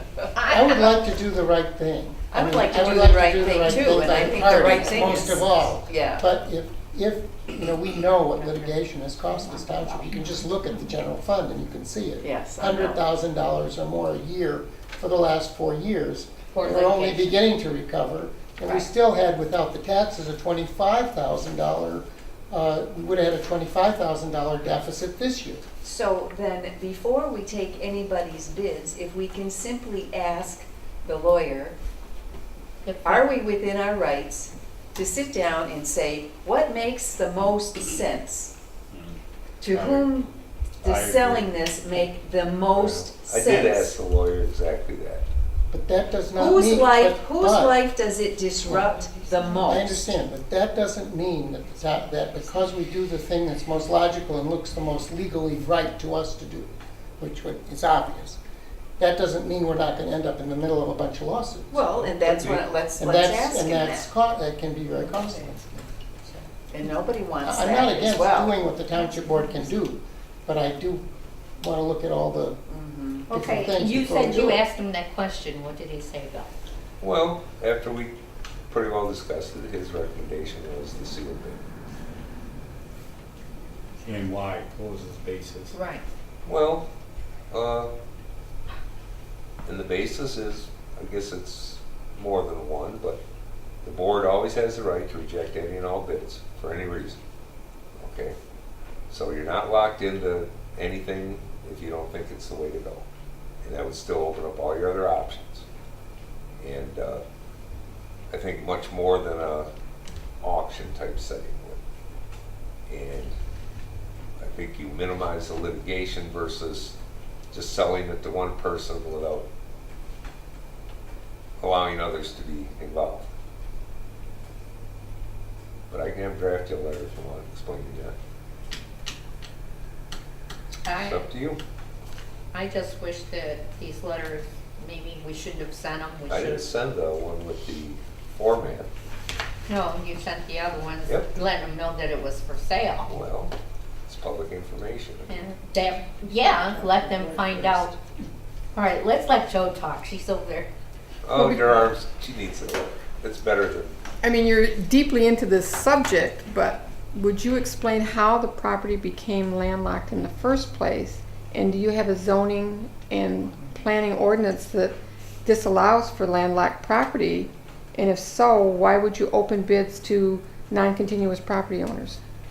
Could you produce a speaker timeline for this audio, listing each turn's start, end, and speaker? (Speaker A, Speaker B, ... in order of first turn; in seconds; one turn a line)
Speaker A: 0.4-0.9
Speaker B: 0.4-25.6
Speaker C: 2.3-6.2
Speaker A: 4.2-4.6
Speaker C: 12.2-13.0
Speaker A: 16.5-17.4
Speaker C: 25.8-31.8
Speaker A: 32.8-33.3
Speaker C: 33.0-38.5
Speaker D: 38.9-39.2
Speaker C: 39.6-40.3
Speaker D: 39.7-41.6
Speaker C: 40.8-44.0
Speaker E: 42.7-45.3
Speaker B: 45.7-47.8
Speaker C: 46.4-50.1
Speaker B: 48.6-48.9
Speaker B: 49.5-58.4
Speaker B: 59.0-61.9
Speaker C: 61.7-64.1
Speaker E: 62.2-62.6
Speaker B: 63.0-66.5
Speaker C: 65.1-65.5
Speaker C: 66.7-68.5
Speaker B: 67.4-71.0
Speaker B: 71.6-72.6
Speaker C: 72.7-73.3
Speaker B: 73.3-74.6
Speaker A: 73.3-76.5
Speaker E: 77.0-78.2
Speaker E: 78.7-81.6
Speaker D: 84.0-85.8
Speaker A: 85.7-86.0
Speaker E: 86.5-86.9
Speaker E: 87.5-87.9
Speaker E: 89.6-93.2
Speaker E: 93.8-97.2
Speaker E: 98.0-98.4
Speaker E: 99.1-103.0
Speaker E: 103.6-105.6
Speaker E: 106.6-107.2
Speaker E: 108.3-109.7
Speaker E: 110.4-111.8
Speaker E: 112.9-113.3
Speaker E: 114.4-117.0
Speaker E: 117.5-119.5
Speaker E: 121.6-123.3
Speaker E: 125.9-128.1
Speaker A: 130.8-131.2
Speaker E: 130.9-131.6
Speaker A: 132.5-136.8
Speaker E: 136.3-138.9
Speaker A: 139.7-143.1
Speaker E: 143.1-143.5
Speaker E: 144.1-145.4
Speaker A: 145.3-147.9
Speaker D: 146.3-147.8
Speaker A: 148.7-150.7
Speaker E: 151.2-153.9
Speaker F: 151.3-151.9
Speaker F: 154.2-172.2